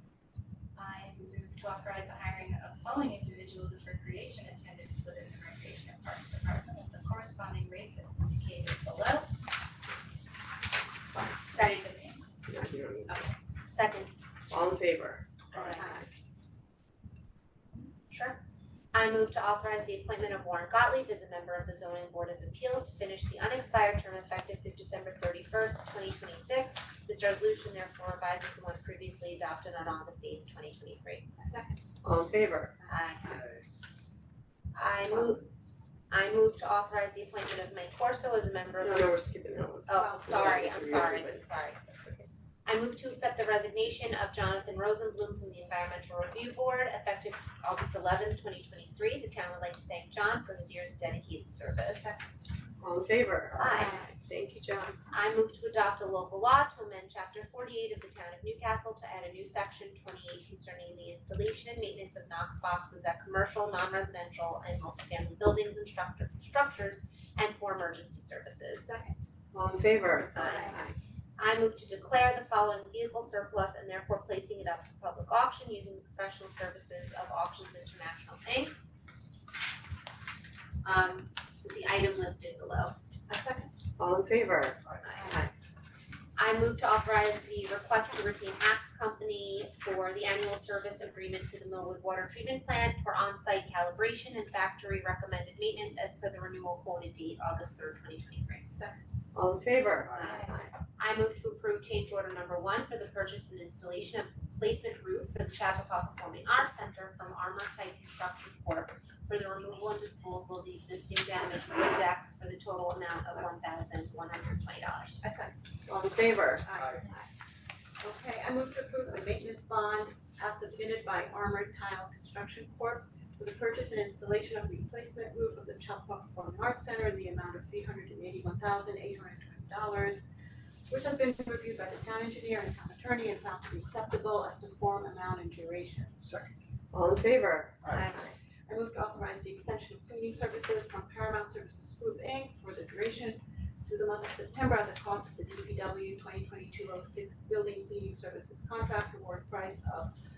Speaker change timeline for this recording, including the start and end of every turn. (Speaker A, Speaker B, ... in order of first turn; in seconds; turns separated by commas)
Speaker A: 0.7-9.3, Speaker B: 11.4-12.4, Speaker C: 12.4-13.3, Speaker B: 13.1-14.1, Speaker C: 14.5-15.8, Speaker B: 15.5-16.0, Speaker D: 15.5-15.8, Speaker B: 18.1-18.4, Speaker B: 18.9-31.2, Speaker E: 31.4-31.8, Speaker C: 32.0-32.8, Speaker B: 32.9-33.4, Speaker D: 33.2-33.6, Speaker B: 34.7-35.5, Speaker B: 36.1-39.1, Speaker C: 38.8-42.2, Speaker B: 39.9-41.8, Speaker E: 39.9-40.9, Speaker D: 40.3-41.2, Speaker B: 42.6-52.2, Speaker E: 52.0-52.2, Speaker C: 52.8-55.0, Speaker B: 53.6-54.0, Speaker B: 55.1-68.9, Speaker E: 68.8-69.2, Speaker C: 69.5-70.9, Speaker B: 70.3-70.8, Speaker B: 71.4-78.8, Speaker B: 80.8-83.0, Speaker E: 83.3-83.7, Speaker C: 84.0-85.5, Speaker D: 84.8-85.2, Speaker B: 85.0-85.5, Speaker B: 86.4-98.7, Speaker E: 98.7-99.0, Speaker C: 99.3-100.7, Speaker B: 100.2-115.2, Speaker E: 100.3-100.5, Speaker E: 115.2-115.5, Speaker C: 115.9-116.6, Speaker E: 116.6-117.2, Speaker D: 116.7-117.1, Speaker E: 118.0-130.2, Speaker E: 130.9-136.2, Speaker D: 136.2-136.5, Speaker C: 136.9-138.1, Speaker D: 137.8-138.1, Speaker B: 137.9-138.3, Speaker E: 138.7-150.1